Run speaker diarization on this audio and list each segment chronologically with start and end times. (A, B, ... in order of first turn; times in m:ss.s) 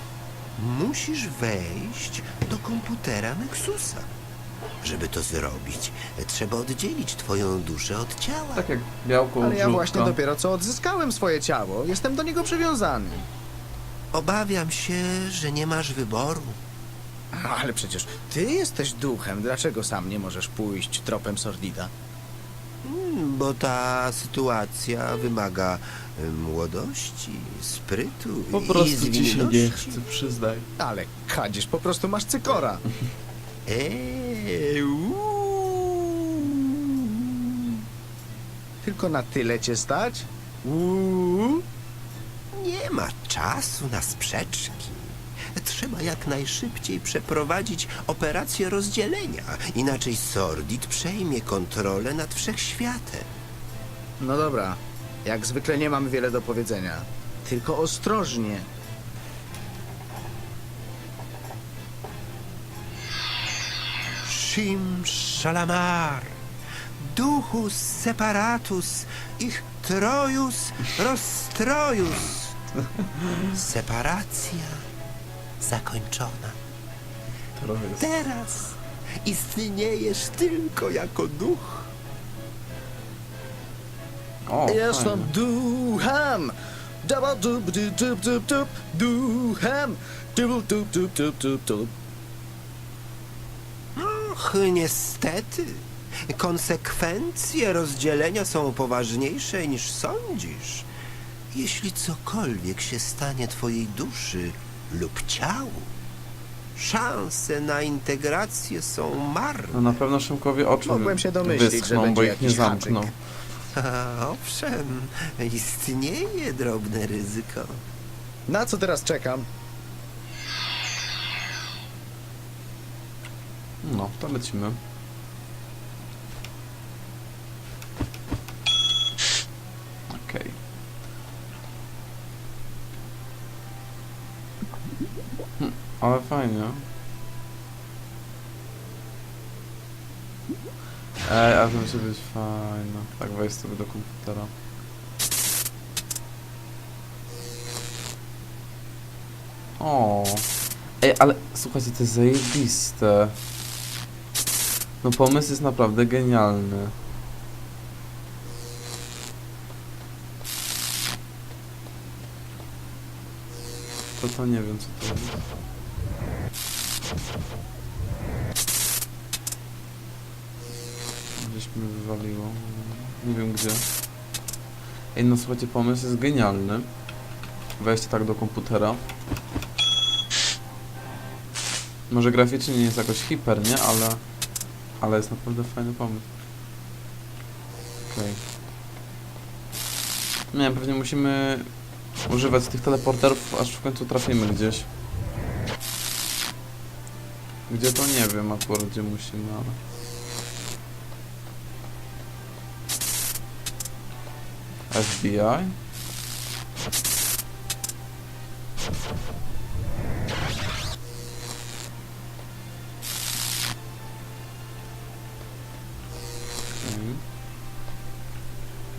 0:00.6-0:04.1 A
0:04.8-0:08.7 A
0:08.5-0:10.2 B
0:09.4-0:13.3 C
0:14.1-0:16.6 A
0:17.3-0:21.9 C
0:22.8-0:30.0 A
0:28.5-0:30.7 B
0:30.8-0:32.8 C
0:33.7-0:37.8 A
0:38.8-0:41.6 C
0:42.5-0:53.3 A
0:54.2-0:58.6 C
1:04.2-1:06.4 A
1:07.0-1:12.5 A
1:13.0-1:13.5 B
1:13.5-1:14.8 A
1:15.6-1:16.6 A
1:17.6-1:18.2 B
1:18.0-1:21.9 A
1:24.4-1:25.3 B
1:24.7-1:26.5 C
1:27.0-1:31.9 C
1:34.0-1:40.9 A
1:41.5-1:45.9 A
1:46.8-1:49.8 A
1:49.7-1:53.1 B
1:50.8-1:53.0 C
1:53.7-1:57.8 A
1:58.5-1:59.4 C
2:03.8-2:04.8 B
2:10.1-2:10.6 B
2:15.6-2:16.8 B
2:21.2-2:24.5 B
2:29.8-2:30.5 B
2:31.0-2:33.4 B
2:35.0-2:36.9 B
2:44.2-2:45.4 B
2:51.3-2:53.8 B
2:55.1-2:56.9 B
2:57.8-2:59.0 B
3:02.1-3:04.2 B
3:05.0-3:06.3 B
3:08.0-3:08.4 B
3:10.5-3:11.7 B
3:12.3-3:14.9 B
3:17.7-3:19.8 B
3:24.9-3:25.7 B
3:36.7-3:37.2 B